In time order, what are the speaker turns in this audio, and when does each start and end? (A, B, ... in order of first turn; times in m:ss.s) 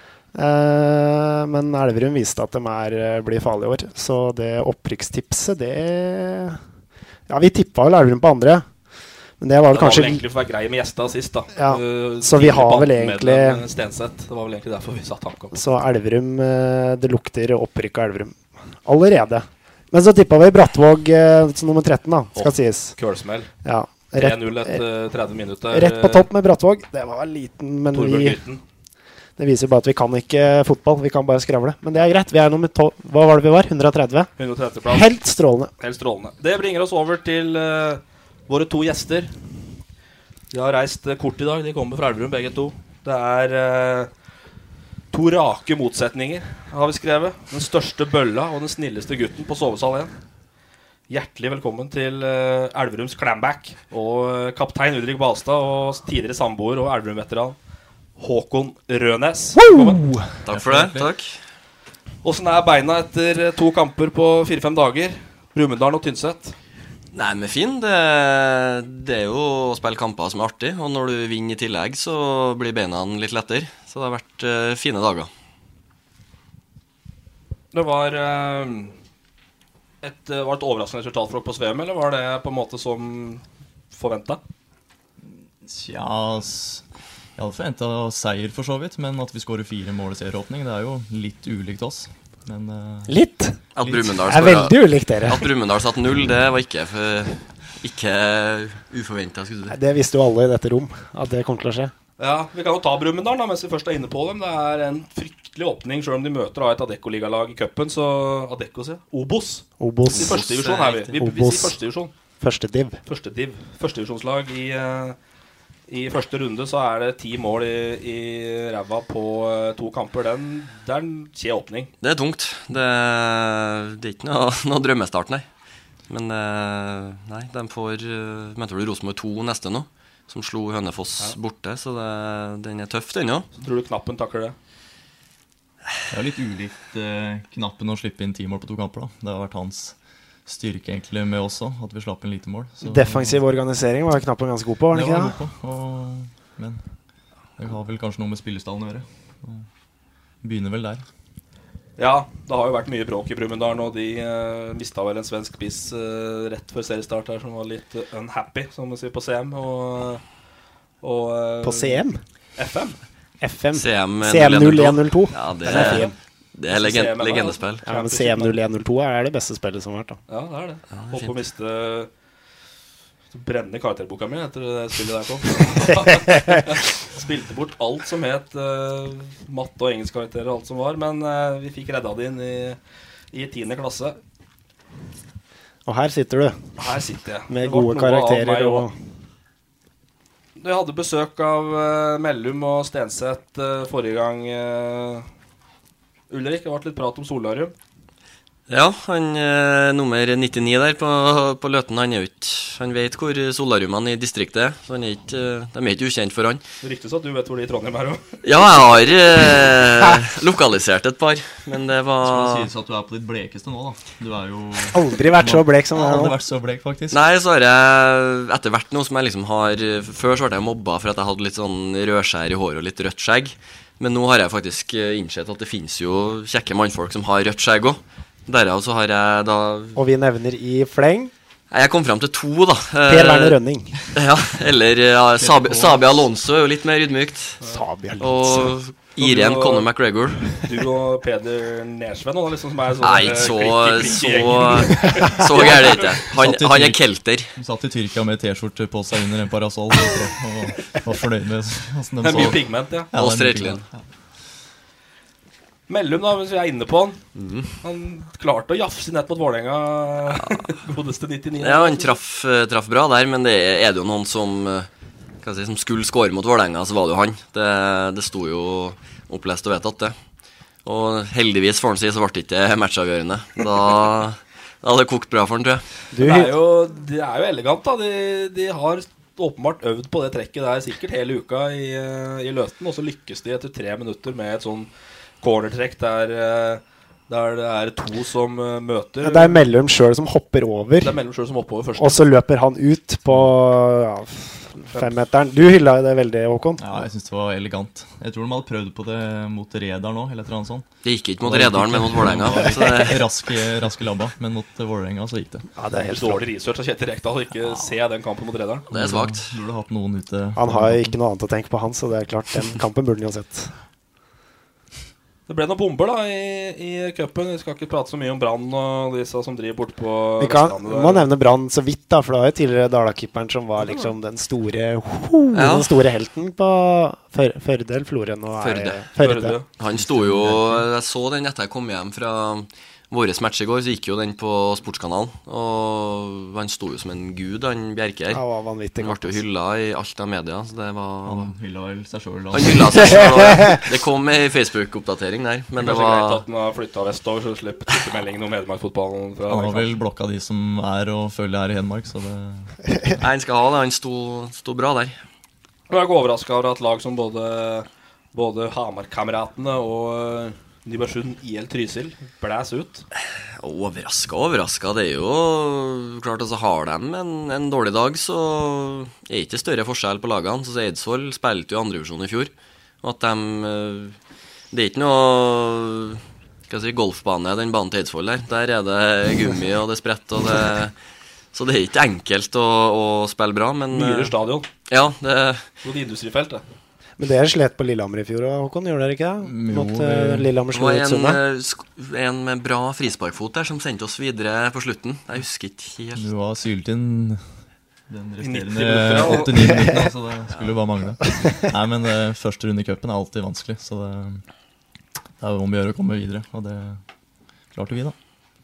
0:00.3-0:06.6 A
0:07.3-0:08.6 A
0:09.4-0:10.2 A
0:09.7-0:15.6 B
0:11.6-0:13.6 A
0:15.5-0:22.9 A
0:22.3-0:23.5 B
0:23.6-0:24.8 A
0:24.2-0:26.3 B
0:25.7-0:28.4 A
0:27.9-0:28.6 B
0:29.4-0:34.3 A
0:34.4-0:35.1 B
0:34.9-0:35.7 A
0:35.8-0:39.3 B
0:40.5-0:44.1 B
0:45.1-0:50.1 B
0:51.1-0:57.6 B
0:58.2-1:00.0 B
0:59.6-1:00.2 A
1:00.4-1:01.3 C
1:00.5-1:01.1 D
1:02.2-1:06.5 B
1:07.1-1:15.3 C
1:17.7-1:18.9 B
1:20.0-1:24.4 B
1:25.3-1:26.8 D
1:27.4-1:33.1 D
1:33.1-1:33.6 A
1:33.8-1:39.8 C
1:33.8-1:34.1 D
1:34.2-1:35.5 A
1:39.7-1:41.9 A
1:42.2-1:52.1 B
1:49.8-1:50.4 A
1:50.1-1:51.1 C
1:51.2-1:51.8 A
1:52.4-1:53.0 A
1:53.1-1:55.2 B
1:55.9-2:01.9 B
2:02.0-2:05.4 C
2:06.1-2:13.4 C
2:13.5-2:14.5 B
2:16.1-2:19.9 D
2:20.4-2:23.4 D
2:22.8-2:25.4 A
2:24.9-2:26.8 D
2:27.6-2:29.6 D
2:30.4-2:31.0 D
2:32.0-2:40.2 B
2:41.0-2:42.0 B
2:41.6-2:42.2 A
2:42.6-2:43.0 B
2:43.4-2:46.1 A
2:43.7-2:47.8 C
2:45.7-2:46.1 B
2:46.7-2:48.6 B
2:47.9-2:50.2 A
2:50.3-2:52.1 B
2:50.9-2:51.3 C
2:53.3-3:02.8 B
3:03.3-3:04.2 B
3:05.8-3:06.6 A
3:06.8-3:08.9 B
3:07.5-3:08.9 A
3:10.6-3:15.3 B
3:16.3-3:17.7 B
3:18.7-3:26.6 C
3:26.8-3:28.3 B
3:28.4-3:32.7 C
3:32.2-3:37.2 D
3:34.9-3:36.4 A
3:37.1-3:50.0 C
3:49.9-3:51.3 A
3:51.7-3:53.6 C
3:53.1-3:54.0 A
3:54.1-3:57.6 C
3:55.4-3:56.2 D
3:57.6-3:58.7 A
3:58.2-4:00.7 C
3:59.2-3:59.9 B
4:00.6-4:06.2 B
4:03.0-4:07.5 C
4:06.2-4:07.0 D
4:07.6-4:14.0 D
4:12.2-4:13.1 B
4:13.1-4:13.8 C
4:15.9-4:17.2 B
4:17.4-4:17.7 C
4:17.8-4:22.1 B
4:21.6-4:24.9 C
4:25.4-4:30.1 C
4:30.8-4:35.8 C
4:36.1-4:36.6 A
4:36.2-4:44.9 B
4:45.4-4:49.6 B
4:49.2-4:51.2 A
4:51.0-4:52.3 B
4:52.0-4:56.8 A
4:56.8-5:00.8 D
5:01.0-5:03.2 C
5:01.4-5:05.7 D
5:05.8-5:06.4 A
5:06.1-5:08.9 B
5:08.9-5:11.1 D
5:08.9-5:09.5 C
5:10.6-5:13.7 A
5:15.5-5:21.3 B
5:20.4-5:29.6 A
5:23.8-5:24.1 B
5:25.5-5:25.9 C
5:28.6-5:29.1 C
5:29.2-5:29.6 B
5:29.8-5:38.4 C
5:30.0-5:30.8 D
5:38.3-5:39.4 A
5:39.0-5:41.5 C
5:41.2-5:43.7 D
5:42.5-5:46.4 C
5:43.4-5:43.8 A
5:45.8-5:49.9 B
5:49.5-5:52.7 D
5:53.2-5:55.1 C
5:55.9-6:03.0 B
6:03.6-6:14.2 C
6:14.7-6:20.9 C
6:21.5-6:24.3 C
6:23.9-6:24.7 B
6:24.9-6:25.7 C
6:25.8-6:26.6 B
6:27.2-6:31.4 A
6:29.4-6:30.5 D
6:30.7-6:36.3 C
6:36.2-6:37.4 D
6:38.1-6:44.4 D
6:38.4-6:39.7 B
6:45.4-6:47.0 D
6:47.7-6:48.1 D